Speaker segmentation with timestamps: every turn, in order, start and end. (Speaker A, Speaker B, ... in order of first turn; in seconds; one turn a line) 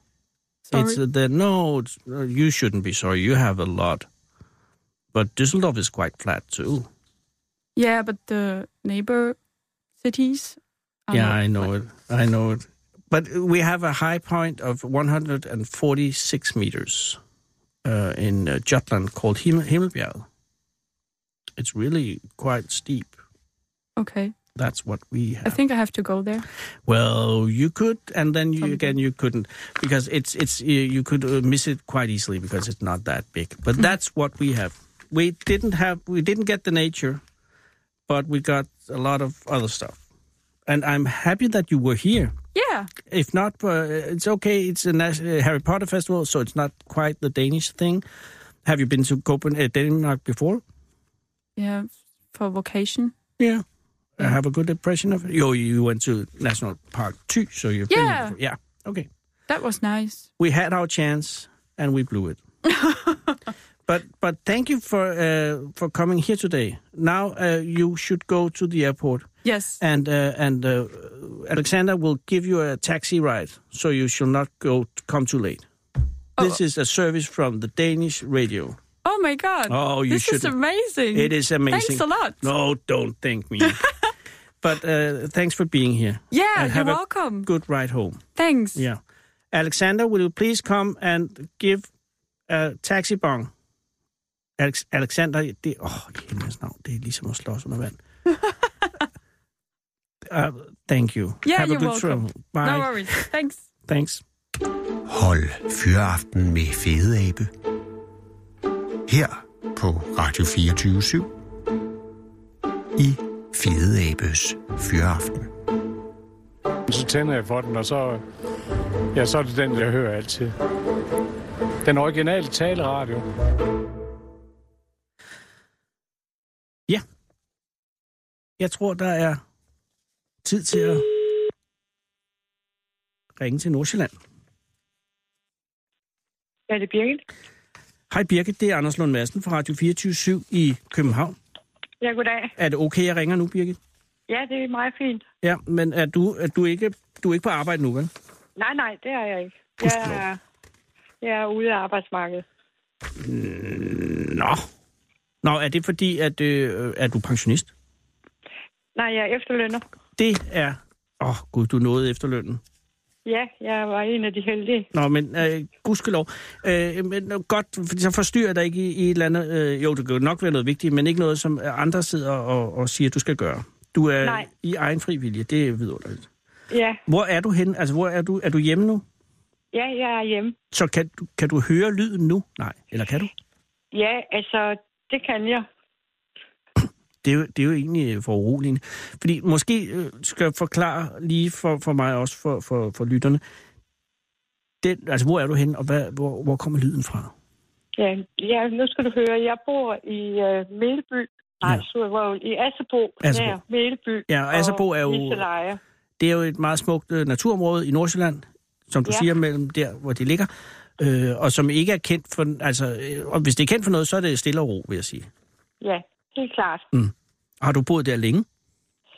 Speaker A: 0.7-1.0
Speaker B: 0.7-4.1
Speaker B: 5.1-6.9
Speaker A: 7.8-9.4
Speaker A: 10.0-11.7
Speaker B: 11.1-17.2
Speaker B: 17.8-20.3
Speaker B: 21.6-23.1
Speaker A: 24.0-24.3
Speaker B: 24.6-25.6
Speaker A: 25.4-26.4
Speaker B: 26.9-37.2
Speaker A: 28.6-29.0
Speaker B: 38.1-40.0
Speaker B: 40.7-42.3
Speaker A: 42.5-42.9
Speaker B: 43.0-48.0
Speaker B: 48.6-50.6
Speaker A: 51.6-53.1
Speaker B: 53.4-53.6
Speaker B: 54.2-59.1
Speaker A: 57.9-58.4
Speaker A: 59.5-60.3
Speaker B: 60.4-62.4
Speaker A: 62.7-63.2
Speaker B: 63.9-75.6
Speaker A: 69.4-69.8
Speaker B: 76.4-78.8
Speaker A: 79.0-82.5
Speaker B: 79.7-80.5
Speaker B: 81.1-83.8
Speaker A: 83.6-83.9
Speaker B: 84.6-89.0
Speaker A: 86.3-87.5
Speaker A: 88.3-88.8
Speaker B: 89.5-91.9
Speaker B: 92.5-93.5
Speaker B: 94.6-98.0
Speaker B: 100.3-103.2
Speaker A: 101.4-103.6
Speaker B: 103.9-104.2
Speaker C: 105.0-107.5
Speaker C: 109.1-111.3
Speaker C: 113.0-115.5
Speaker D: 116.9-118.2
Speaker D: 119.1-120.5
Speaker D: 121.8-123.2
Speaker B: 128.6-129.4
Speaker B: 130.4-131.1
Speaker B: 133.4-134.1
Speaker E: 136.7-137.2
Speaker B: 138.1-141.3
Speaker E: 142.0-142.5
Speaker B: 142.6-143.8
Speaker E: 144.3-145.2
Speaker B: 145.4-148.1
Speaker E: 148.6-150.4
Speaker B: 149.8-150.2
Speaker E: 151.2-152.4
Speaker B: 153.2-154.7
Speaker B: 155.4-157.7
Speaker E: 158.9-159.8
Speaker B: 160.2-162.6
Speaker E: 163.2-164.9
Speaker B: 164.9-176.3
Speaker E: 174.2-174.5
Speaker E: 176.7-177.0
Speaker B: 177.1-179.0
Speaker E: 179.7-180.6
Speaker B: 180.7-183.3
Speaker E: 183.9-185.7
Speaker B: 187.2-193.4
Speaker B: 194.8-197.3
Speaker E: 197.9-205.8
Speaker B: 203.2-203.6
Speaker B: 204.3-205.4
Speaker B: 206.2-215.3
Speaker E: 215.8-216.8
Speaker B: 216.9-218.4